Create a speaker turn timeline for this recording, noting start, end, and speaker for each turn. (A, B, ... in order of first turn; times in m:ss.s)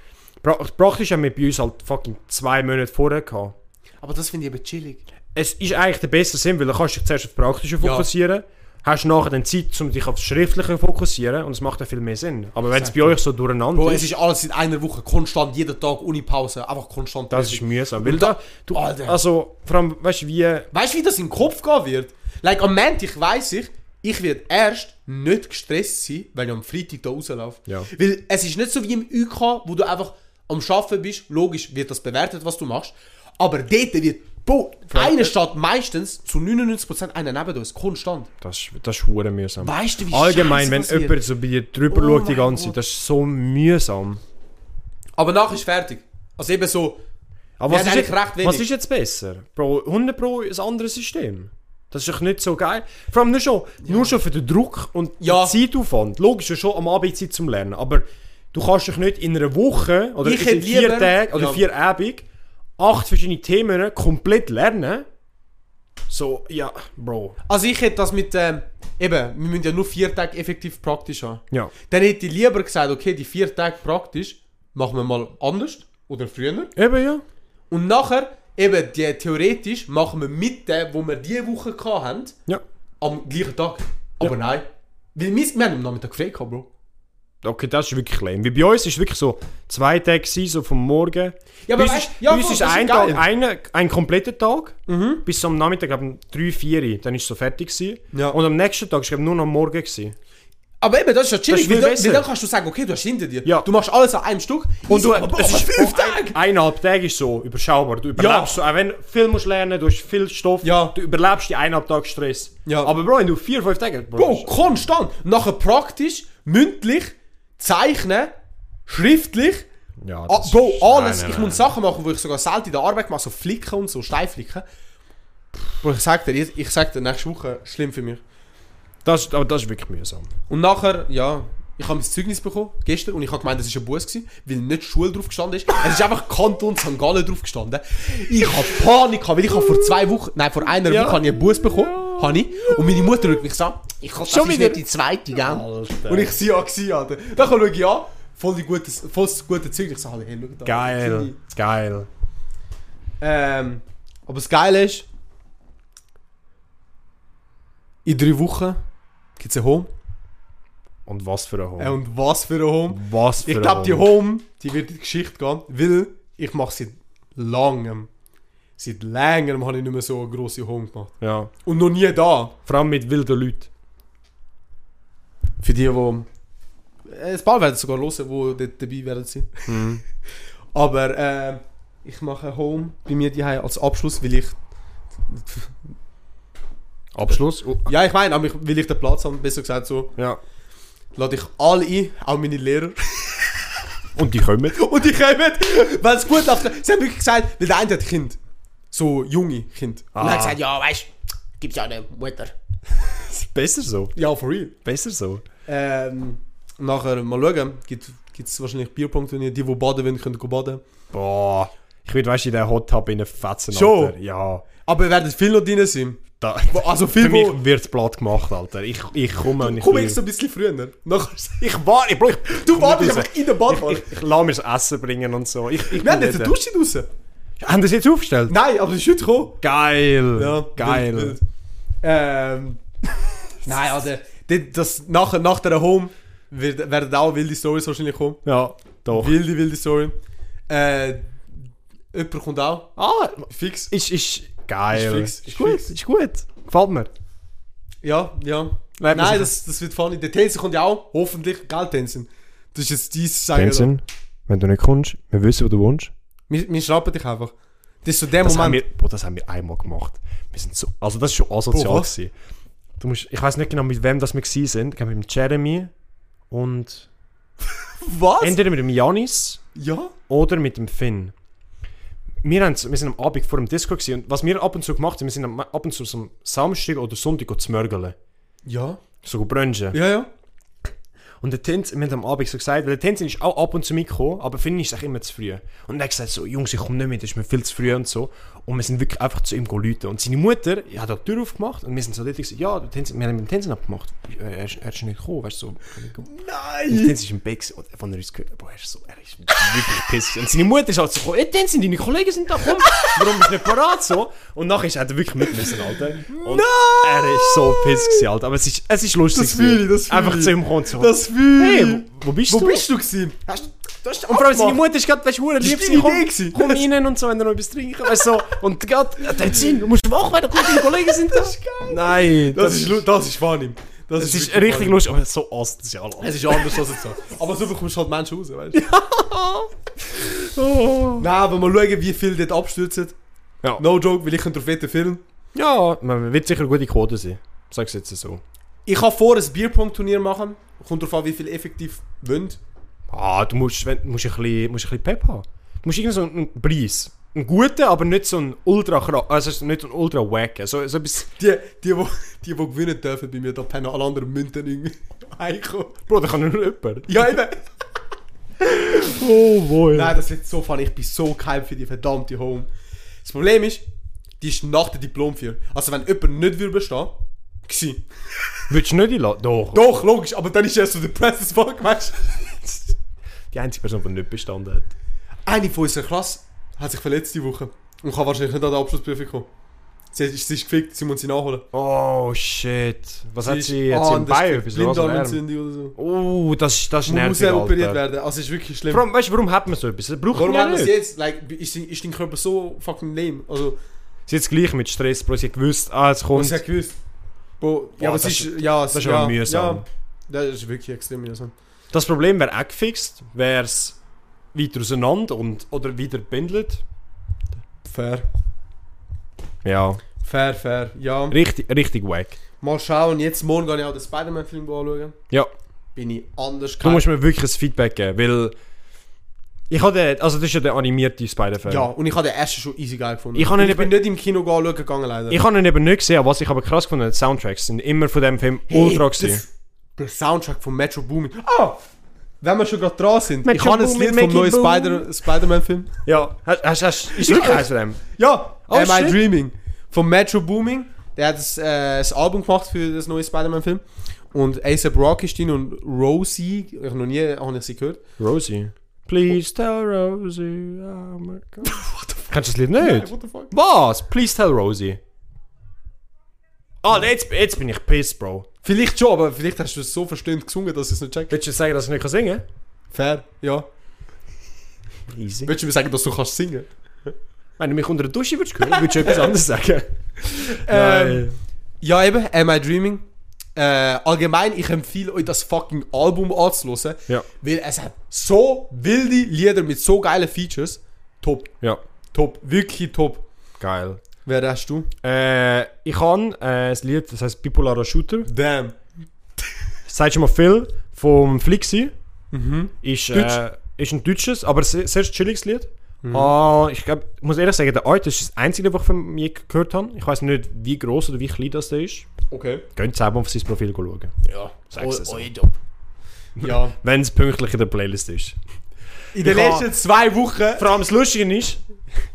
0:00.4-0:03.6 A
0:04.0-0:05.0 B
0:05.3-0:14.1 A
0:07.8-0:08.1 B
0:12.7-0:13.2 B
0:13.7-0:19.2 B
0:17.3-0:20.7 A
0:20.7-0:38.3 B
0:34.9-0:35.3 A
0:38.4-0:44.2 A
0:39.6-0:41.2 B
0:41.9-0:42.8 B
0:45.2-0:47.0 B
0:47.6-1:02.2 A
0:47.7-0:48.7 B
0:53.8-0:54.1 B
0:55.2-0:55.6 B
1:00.2-1:01.6 B
1:02.8-1:05.1 A
1:06.1-1:07.4 A
1:07.5-1:16.7 B
1:16.8-1:17.2 A
1:17.7-1:22.4 B
1:23.0-1:26.7 B
1:27.4-1:40.2 A
1:31.7-1:33.2 B
1:34.9-1:35.2 B
1:38.1-1:38.4 B
1:40.8-1:46.4 B
1:41.5-1:42.3 A
1:44.9-1:54.5 A
1:48.2-1:48.6 B
1:50.6-1:51.0 B
1:52.7-1:52.9 B
1:54.2-1:58.3 B
1:58.9-1:59.7 B
2:00.0-2:01.7 A
2:00.3-2:04.6 B
2:05.8-2:08.2 B
2:09.0-2:10.3 A
2:10.5-2:31.4 B
2:20.8-2:23.1 A
2:24.2-2:26.4 A
2:30.6-2:32.1 A
2:33.2-2:35.1 B
2:38.0-2:38.8 B
2:39.4-2:39.9 B
2:41.1-2:42.0 A
2:41.8-2:48.1 B
2:42.9-2:44.1 A
2:48.8-2:52.6 B
2:51.2-2:51.5 A
2:52.7-2:53.7 A
2:55.6-2:56.3 B
2:57.1-3:00.0 B
2:59.7-3:00.0 A
3:00.7-3:04.6 B
3:05.3-3:05.8 B
3:07.2-3:07.9 A
3:07.9-3:10.1 B
3:11.2-3:13.4 B
3:14.2-3:14.8 A
3:14.7-3:18.4 B
3:18.9-3:22.5 B
3:20.2-3:20.6 A
3:23.2-3:24.2 A
3:24.2-3:24.8 B
3:24.8-3:25.4 A
3:25.7-3:30.8 B
3:31.1-3:34.6 A
3:33.7-3:34.2 B
3:34.8-3:37.6 B
3:36.4-3:40.2 A
3:39.6-3:41.7 B
3:41.6-3:46.6 A
3:42.5-3:44.1 B
3:45.9-3:47.1 B
3:47.6-3:48.6 A
3:48.5-3:49.6 B
3:49.6-3:51.4 A
3:50.4-3:51.4 B
3:52.0-3:52.8 B
3:53.6-3:58.4 B
3:58.4-3:59.4 A
3:59.1-4:00.1 B
4:00.7-4:01.4 B
4:02.1-4:02.9 B
4:03.0-4:07.1 A
4:03.5-4:03.9 B
4:04.9-4:05.9 B
4:08.0-4:13.9 B
4:09.0-4:09.5 A
4:13.5-4:16.1 A
4:16.5-4:17.5 B
4:18.0-4:18.8 B
4:18.4-4:22.3 A
4:21.7-4:22.1 B
4:23.0-4:25.9 A
4:26.5-4:27.1 A
4:28.0-4:28.6 B
4:28.4-4:29.6 A
4:29.8-4:30.2 B
4:30.3-4:31.3 A
4:32.4-4:38.2 A
4:38.7-4:39.0 B
4:39.2-4:40.0 A
4:39.9-4:40.3 B
4:41.4-4:56.3 A
4:56.3-4:57.2 B
4:56.9-5:12.9 A
5:02.8-5:03.5 B
5:05.5-5:08.2 B
5:09.3-5:13.6 B
5:13.5-5:23.0 A
5:14.2-5:14.8 B
5:15.6-5:16.8 B
5:20.7-5:25.0 B
5:24.2-5:26.8 A
5:26.2-5:28.9 B
5:28.8-5:31.3 A
5:31.2-5:33.2 B
5:33.8-5:35.2 B
5:35.5-5:38.4 A
5:38.9-5:42.6 B
5:43.1-5:51.3 A
5:51.4-5:56.0 B
5:56.1-5:57.4 A
5:57.1-5:57.6 B
5:58.7-6:00.2 A
5:59.9-6:02.7 B
6:03.2-6:03.8 B
6:04.4-6:08.0 B
6:08.7-6:09.8 A
6:09.7-6:12.6 B
6:13.5-6:14.9 A
6:15.5-6:19.5 B
6:20.1-6:21.7 B
6:21.7-6:25.4 A
6:23.4-6:26.0 B
6:26.0-6:28.0 A
6:27.1-6:29.0 B
6:28.9-6:30.9 A
6:30.3-6:33.8 B
6:34.3-6:36.6 A
6:36.3-6:37.0 B
6:37.6-6:41.5 B
6:38.0-6:39.8 A
6:41.9-6:44.0 A
6:44.5-6:46.8 A
6:47.8-6:48.3 B
6:49.6-6:50.0 A
6:50.2-6:51.4 B
6:51.3-6:52.4 A
6:52.6-6:55.2 B
6:56.0-6:57.1 B
6:56.8-6:58.6 A
6:59.7-7:01.9 A
7:01.6-7:05.4 B
7:03.4-7:04.0 A
7:05.3-7:09.4 A
7:08.7-7:11.8 B
7:12.4-7:15.9 B
7:13.4-7:15.1 A
7:16.0-7:18.0 A
7:17.2-7:28.0 B
7:18.7-7:19.2 A
7:28.2-7:31.8 A
7:31.6-7:33.5 B
7:32.3-7:35.0 A
7:36.8-7:38.5 A
7:38.6-7:41.3 B
7:41.3-7:42.5 A
7:42.9-7:43.7 B
7:45.1-7:45.5 A
7:45.4-7:46.7 B
7:47.6-7:51.4 A
7:48.7-7:49.3 B
7:50.3-7:51.3 B
7:51.8-7:53.0 B
7:53.6-8:01.6 B
8:02.1-8:03.2 B
8:03.6-8:04.0 A
8:04.2-8:04.9 B
8:05.0-8:08.3 A
8:08.3-8:08.8 B
8:09.9-8:11.9 A
8:12.3-8:13.4 B
8:12.8-8:22.1 A
8:16.0-8:16.3 B
8:22.3-8:22.6 B
8:22.8-8:24.1 A
8:24.2-8:25.6 B
8:24.7-8:25.3 A
8:26.4-8:26.8 B
8:26.4-8:28.4 A
8:29.1-8:30.7 B
8:29.2-8:29.7 A
8:30.6-8:31.6 A